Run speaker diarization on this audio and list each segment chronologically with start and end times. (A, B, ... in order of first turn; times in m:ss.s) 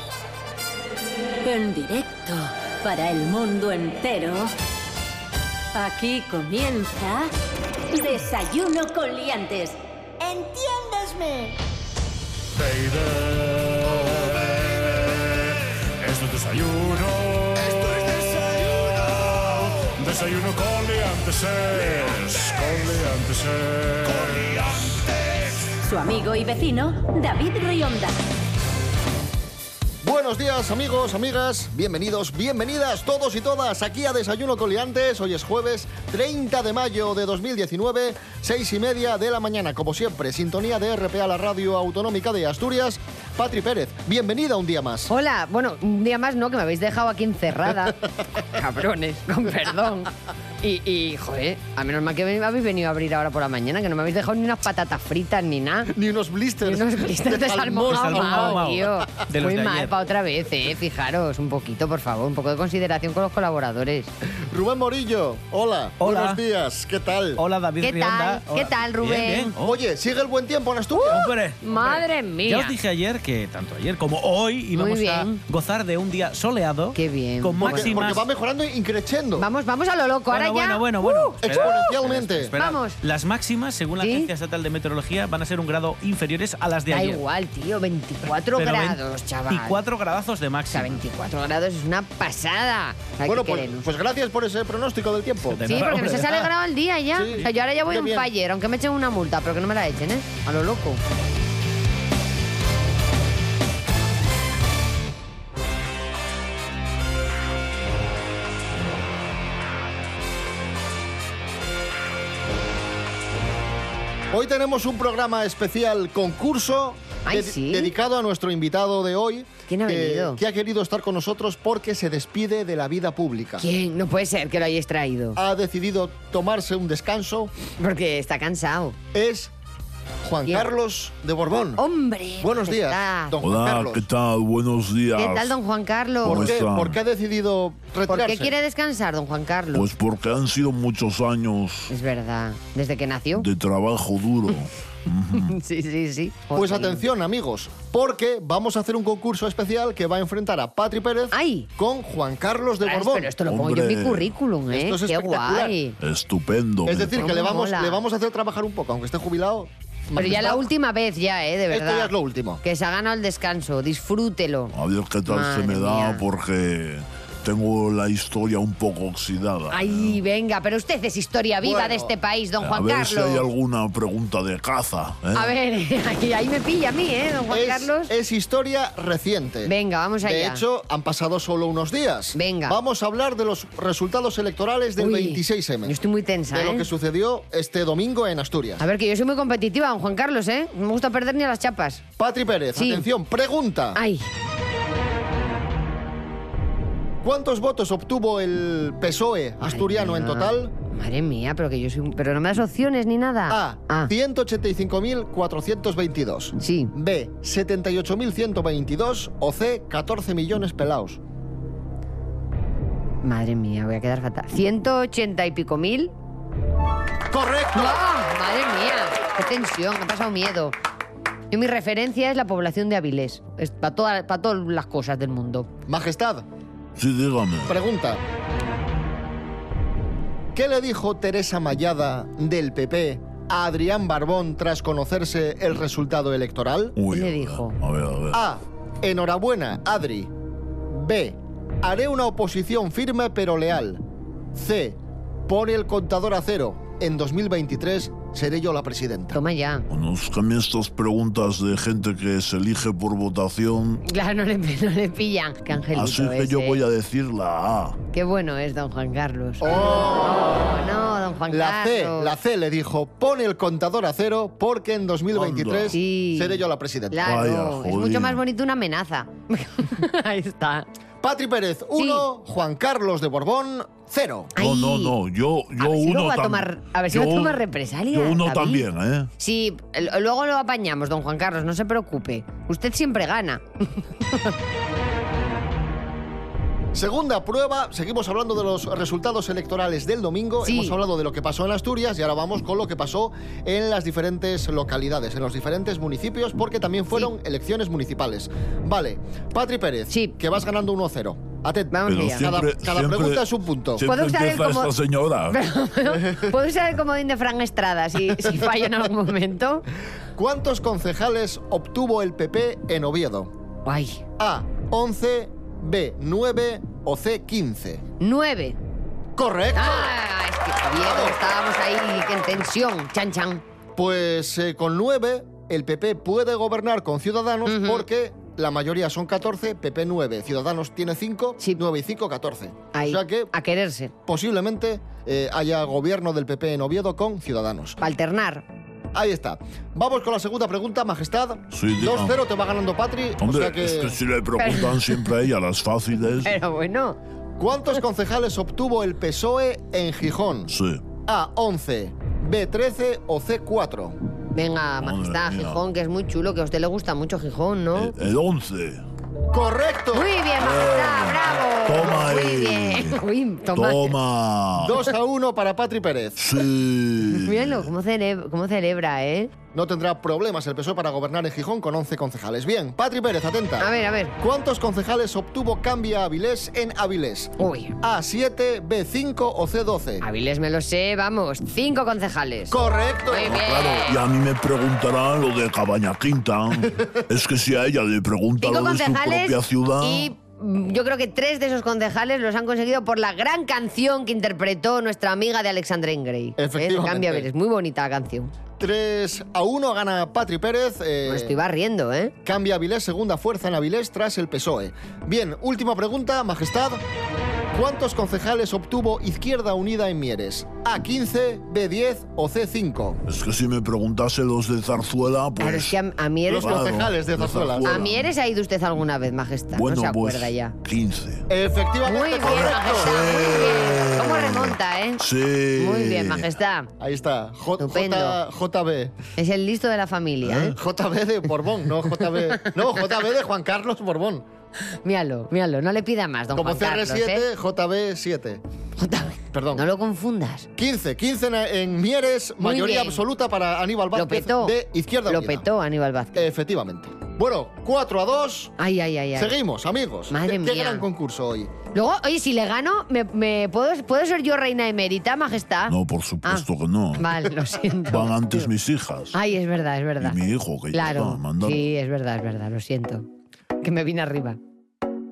0:01.4-0:04.5 A
0:05.7-0:07.3 A
0:07.9-0:11.5 A
0:12.6-0:25.4 B
0:25.8-0:28.2 A
0:30.0-0:45.1 C
0:45.1-0:55.9 D
0:55.9-0:58.7 C
0:56.6-1:04.1 D
0:57.9-0:59.9 E
1:04.4-1:07.4 C
1:06.0-1:06.4 E
1:07.4-1:09.8 E
1:07.8-1:09.6 D
1:09.6-1:11.3 C
1:11.0-1:18.2 E
1:11.6-1:12.7 D
1:14.7-1:15.4 D
1:16.9-1:18.0 D
1:17.6-1:19.5 C
1:19.4-1:21.9 D
1:20.3-1:27.2 E
1:21.4-1:22.6 C
1:22.6-1:23.0 D
1:24.0-1:24.3 D
1:26.9-1:29.8 D
1:28.6-1:31.0 E
1:30.7-1:33.8 D
1:33.2-1:35.7 C
1:35.5-1:36.5 E
1:35.7-1:41.0 D
1:37.1-1:38.3 C
1:54.3-2:03.7 C
1:57.2-1:57.9 D
1:59.7-2:00.4 D
2:03.6-2:05.4 D
2:05.4-2:07.5 C
2:07.8-2:09.0 D
2:09.1-2:09.5 C
2:10.2-2:11.8 C
2:11.8-2:13.4 D
2:12.4-2:14.1 C
2:13.4-2:15.6 F
2:15.2-2:16.6 D
2:16.2-2:17.0 F
2:16.3-2:18.5 C
2:18.1-2:19.9 D
2:19.7-2:21.9 F
2:21.9-2:23.5 D
2:23.4-2:25.6 F
2:25.4-2:27.0 D
2:26.5-2:33.3 C
2:31.3-2:31.7 D
2:32.8-2:36.0 D
2:33.4-2:34.3 F
2:34.7-2:35.8 C
2:36.0-2:37.3 F
2:36.9-2:40.7 C
2:37.1-2:38.0 D
2:40.2-2:42.1 D
2:41.7-2:42.6 C
2:42.6-2:44.7 D
2:44.7-2:50.2 F
2:45.3-2:46.2 D
2:49.7-2:53.5 D
2:51.6-2:52.1 C
2:52.6-2:55.5 F
2:55.3-2:58.1 D
2:57.5-3:06.0 C
2:59.6-3:00.6 D
3:02.3-3:02.8 D
3:05.0-3:06.9 D
3:06.5-3:08.8 C
3:08.8-3:12.0 D
3:12.2-3:14.0 C
3:12.8-3:13.1 D
3:14.0-3:14.2 D
3:17.2-3:20.7 C
3:19.6-3:24.1 D
3:23.5-3:31.2 C
3:26.6-3:26.9 D
3:33.2-3:36.1 D
3:37.3-3:38.0 C
3:37.7-3:40.8 D
3:41.5-3:45.7 D
3:45.9-3:46.5 C
3:47.0-3:47.8 F
3:47.7-3:48.2 C
3:50.6-3:57.0 C
3:57.0-3:58.4 F
3:57.1-3:57.8 D
3:58.3-4:00.3 C
4:00.9-4:04.0 C
4:04.6-4:09.4 C
4:09.3-4:09.8 D
4:09.9-4:14.0 F
4:14.0-4:16.8 D
4:15.9-4:18.0 F
4:18.1-4:22.4 D
4:19.6-4:20.7 C
4:21.5-4:27.4 C
4:25.3-4:26.0 F
4:25.9-4:30.9 D
4:27.2-4:28.4 F
4:31.2-4:34.5 C
4:32.0-4:32.3 D
4:34.6-4:35.2 D
4:34.6-4:39.3 F
4:35.8-4:38.8 D
4:39.4-4:44.6 D
4:46.9-5:04.1 C
4:50.6-4:51.0 D
5:00.1-5:00.4 D
5:01.9-5:02.5 D
5:02.1-5:05.6 F
5:04.0-5:04.9 D
5:05.5-5:09.8 D
5:06.1-5:06.6 C
5:10.4-5:13.5 C
5:13.9-5:14.2 D
5:14.4-5:18.0 C
5:18.2-5:18.8 D
5:19.4-5:20.2 C
5:19.8-5:23.6 D
5:20.8-5:21.4 C
5:24.0-5:33.5 C
5:27.7-5:28.1 D
5:32.9-5:34.1 D
5:34.3-5:38.0 C
5:38.0-5:38.6 D
5:39.1-5:44.2 C
5:41.7-5:42.3 F
5:43.4-5:46.6 F
5:44.6-5:45.3 D
5:46.4-5:47.2 D
5:47.6-5:50.7 C
5:50.7-5:51.0 F
5:51.3-5:54.2 C
5:54.5-5:58.2 D
5:55.0-5:55.8 F
5:58.0-5:59.0 F
5:59.5-6:00.4 C
6:00.1-6:04.2 D
6:00.6-6:03.2 F
6:03.7-6:05.0 F
6:04.7-6:06.6 C
6:06.4-6:07.9 F
6:07.3-6:09.5 D
6:09.7-6:20.3 C
6:13.8-6:14.4 D
6:17.6-6:18.0 D
6:20.2-6:24.2 D
6:22.7-6:23.6 C
6:23.4-6:30.3 F
6:28.6-6:38.5 D
6:36.6-6:37.5 C
6:38.8-6:41.6 C
6:41.3-6:42.3 D
6:42.4-6:47.0 C
6:47.7-6:53.2 C
6:53.3-6:56.0 F
6:55.6-6:56.9 D
6:56.5-6:58.1 C
6:56.6-6:58.3 F
6:57.8-7:00.8 D
6:59.8-7:01.5 F
7:01.5-7:03.4 C
7:02.0-7:05.2 D
7:02.5-7:06.5 F
7:05.8-7:06.9 D
7:07.0-7:09.1 C
7:07.8-7:08.4 D
7:09.4-7:10.8 D
7:10.4-7:14.5 C
7:12.6-7:12.9 D
7:15.0-7:17.5 D
7:16.6-7:18.6 C
7:19.0-7:20.7 D
7:19.5-7:19.8 C
7:20.8-7:25.7 C
7:22.6-7:23.2 D
7:24.2-7:24.8 D
7:25.3-7:26.5 D
7:26.4-7:28.7 C
7:28.8-7:29.6 D
7:29.4-7:31.7 C
7:30.3-7:31.1 D
7:31.9-7:38.7 D
7:35.9-7:37.3 F
7:38.1-7:39.4 F
7:39.3-7:40.4 D
7:40.2-7:41.9 F
7:40.9-7:43.3 D
7:43.8-7:44.6 D